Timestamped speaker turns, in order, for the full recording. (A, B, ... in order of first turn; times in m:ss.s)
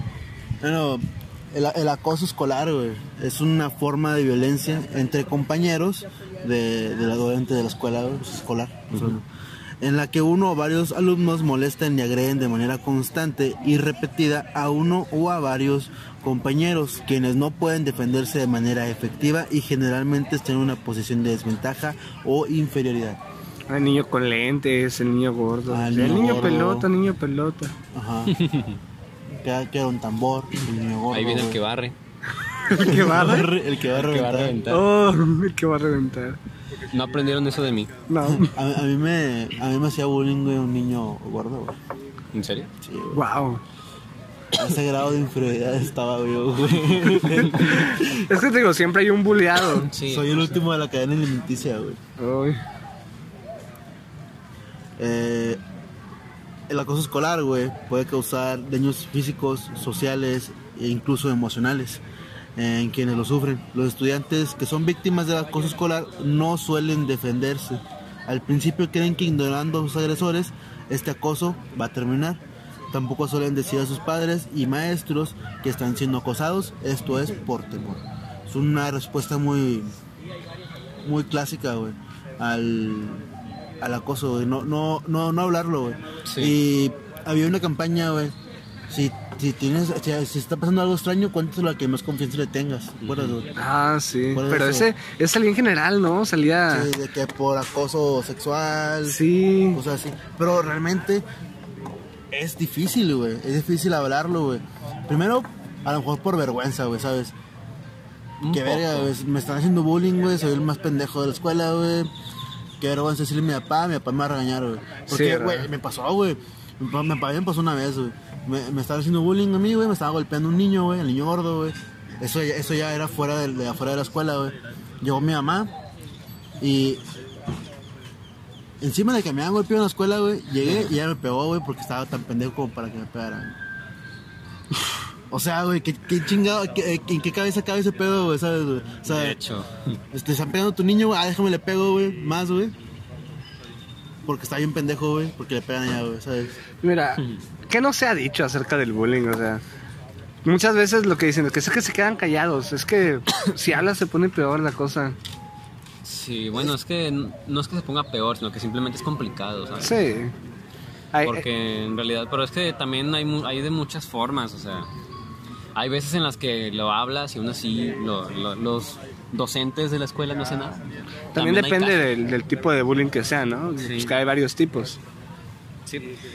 0:00.6-0:09.3 A
0:09.8-0:23.2 A
0:23.7-0:27.8 B
0:25.7-0:26.9 A
0:27.9-0:28.4 A
0:28.3-0:28.8 C
0:29.4-0:31.6 A
0:31.1-0:32.0 C
0:32.7-0:33.5 B
0:32.7-0:33.2 C
0:32.8-0:34.6 A
0:34.0-0:34.9 C
0:34.7-0:36.4 B
0:36.9-0:37.9 C
0:38.1-0:38.6 B
0:38.3-0:41.8 A
0:42.3-0:42.7 C
0:42.8-0:43.2 A
0:43.1-0:43.6 B
0:44.6-0:48.2 A
0:47.5-0:49.9 B
0:49.7-0:50.5 C
0:50.0-0:52.0 A
0:52.2-0:52.6 B
0:55.0-0:55.6 A
0:56.7-1:02.0 A
1:02.6-1:20.0 A
1:21.0-1:23.3 A
1:23.8-1:28.4 A
1:26.2-1:26.6 C
1:28.9-1:33.5 A
1:33.0-1:33.4 C
1:33.6-1:36.9 B
1:34.3-1:34.9 A
1:36.7-1:39.2 A
1:39.1-1:39.8 B
1:39.7-1:41.2 A
1:42.3-1:47.3 A
1:48.4-1:49.1 C
1:48.5-1:52.1 A
1:52.8-2:05.7 A
1:55.1-1:55.7 B
2:06.6-2:07.0 A
2:08.8-2:13.6 A
2:15.3-2:19.4 A
2:19.1-2:20.0 C
2:20.1-2:22.8 A
2:24.2-2:26.6 A
2:26.8-2:29.6 B
2:30.4-2:35.2 B
2:36.0-2:40.0 C
2:39.8-2:40.3 B
2:41.1-2:41.5 B
2:41.2-2:44.9 C
2:45.8-2:50.8 C
2:51.3-2:55.0 B
2:51.4-2:52.1 C
2:53.8-2:54.1 C
2:55.9-2:56.1 C